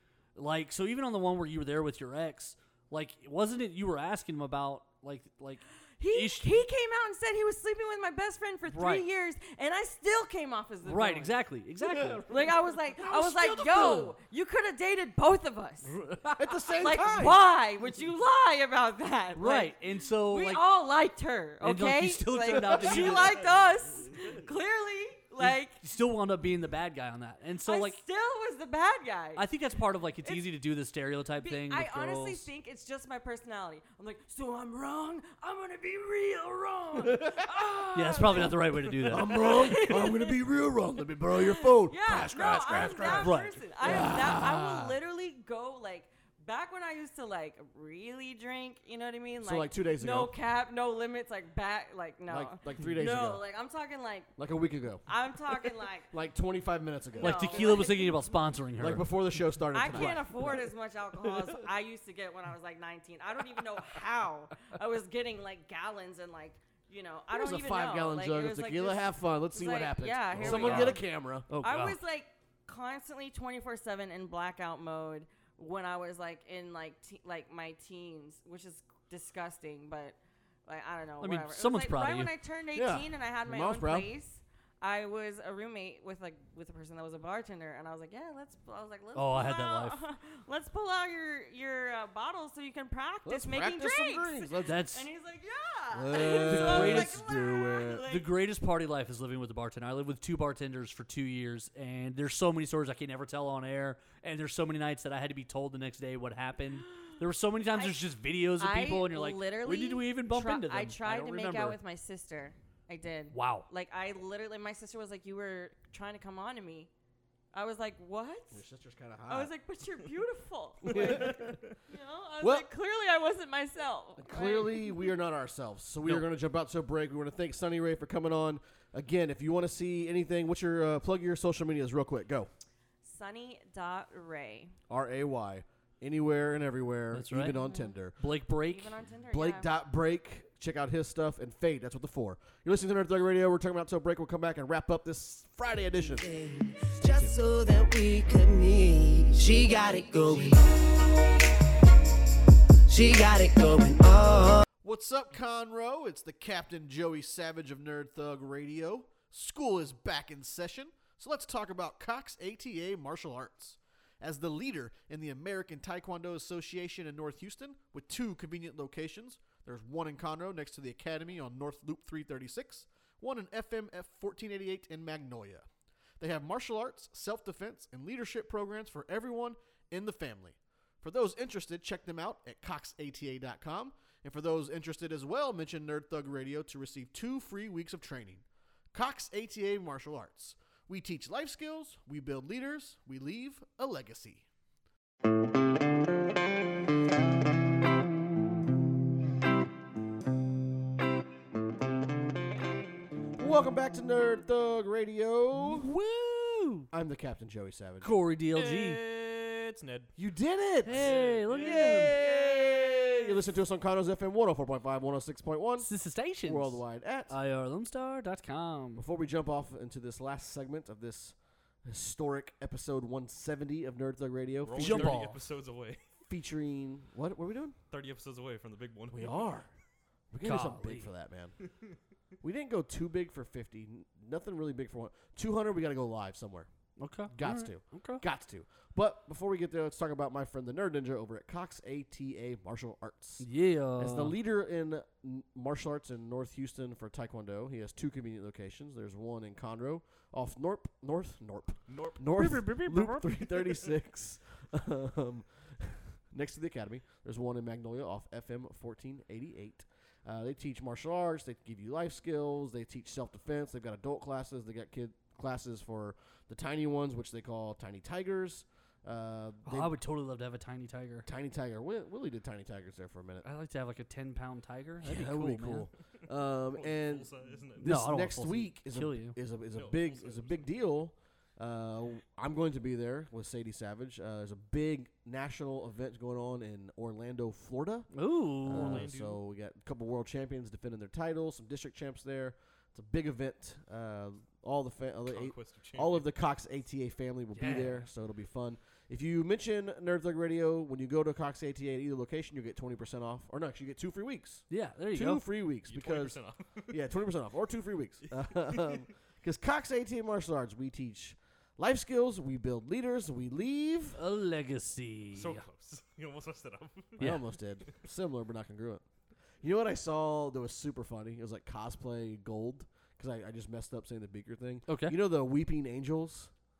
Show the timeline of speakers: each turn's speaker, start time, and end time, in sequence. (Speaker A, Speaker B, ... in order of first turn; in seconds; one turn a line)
Speaker A: 0.3-6.5
Speaker B: 6.0-11.4
Speaker A: 8.7-9.1
Speaker A: 10.8-12.3
Speaker C: 11.8-14.2
Speaker B: 12.3-15.9
Speaker A: 15.9-16.5
Speaker C: 16.3-17.4
Speaker B: 16.8-25.8
Speaker A: 19.4-20.6
Speaker A: 21.6-23.4
Speaker C: 22.6-23.2
Speaker A: 25.4-28.0
Speaker B: 27.6-29.4
Speaker A: 29.4-32.5
Speaker B: 30.2-30.5
Speaker B: 31.4-40.4
Speaker C: 37.0-37.9
Speaker A: 37.9-39.4
Speaker C: 39.1-45.0
Speaker B: 41.3-54.3
Speaker A: 43.2-43.6
Speaker C: 49.4-50.3
Speaker C: 52.3-53.4
Speaker C: 54.4-55.0
Speaker B: 55.0-56.1
Speaker C: 56.1-57.8
Speaker B: 57.1-58.4
Speaker A: 57.2-59.1
Speaker C: 58.8-60.7
Speaker B: 59.7-71.0
Speaker A: 59.9-60.2
Speaker C: 67.3-71.5
Speaker A: 70.4-72.0
Speaker B: 71.6-98.3
Speaker A: 81.2-82.3
Speaker C: 82.8-84.1
Speaker A: 89.2-90.0
Speaker C: 93.2-94.8
Speaker A: 94.6-95.1
Speaker C: 95.9-98.1
Speaker A: 96.3-97.2
Speaker A: 98.1-111.8
Speaker B: 107.7-116.9
Speaker A: 113.3-113.7
Speaker B: 117.5-118.6
Speaker C: 118.5-119.5
Speaker B: 119.3-125.1
Speaker C: 120.8-121.6
Speaker D: 121.3-121.5
Speaker C: 122.4-122.7
Speaker C: 124.2-132.5
Speaker B: 133.0-134.8
Speaker C: 134.9-138.2
Speaker A: 137.1-137.6
Speaker B: 137.6-137.9
Speaker A: 138.2-138.9
Speaker B: 138.7-139.7
Speaker C: 139.3-146.3
Speaker E: 146.2-150.6
Speaker C: 147.1-147.3
Speaker E: 152.9-154.6
Speaker C: 154.8-175.7
Speaker C: 176.2-194.5
Speaker C: 203.4-205.9
Speaker A: 205.6-206.9
Speaker C: 206.9-208.1
Speaker A: 208.0-209.0
Speaker D: 208.5-210.1
Speaker C: 210.2-215.9
Speaker A: 210.8-212.2
Speaker D: 210.9-213.1
Speaker A: 215.8-219.0
Speaker C: 216.4-217.3
Speaker C: 219.0-225.2
Speaker D: 224.6-226.0
Speaker A: 224.7-225.4
Speaker C: 226.3-227.8
Speaker D: 227.9-229.5
Speaker C: 229.1-229.7
Speaker C: 230.3-231.6
Speaker A: 230.4-231.1
Speaker C: 232.4-236.7
Speaker A: 237.0-238.2
Speaker C: 237.3-270.0
Speaker A: 243.4-244.4
Speaker D: 251.9-252.2
Speaker A: 252.3-253.5
Speaker A: 269.7-271.3
Speaker C: 271.3-273.4
Speaker A: 273.4-275.9
Speaker C: 275.0-288.1
Speaker D: 276.7-278.0
Speaker A: 277.8-279.4
Speaker D: 279.7-280.7
Speaker A: 288.1-289.1
Speaker C: 288.6-314.2
Speaker D: 288.7-289.4
Speaker D: 295.3-296.3
Speaker A: 297.6-298.0
Speaker A: 304.7-305.4
Speaker D: 305.9-307.0
Speaker D: 308.8-309.0
Speaker A: 314.1-315.7
Speaker D: 315.3-317.4
Speaker C: 317.2-319.0
Speaker C: 319.6-326.5
Speaker A: 324.9-325.2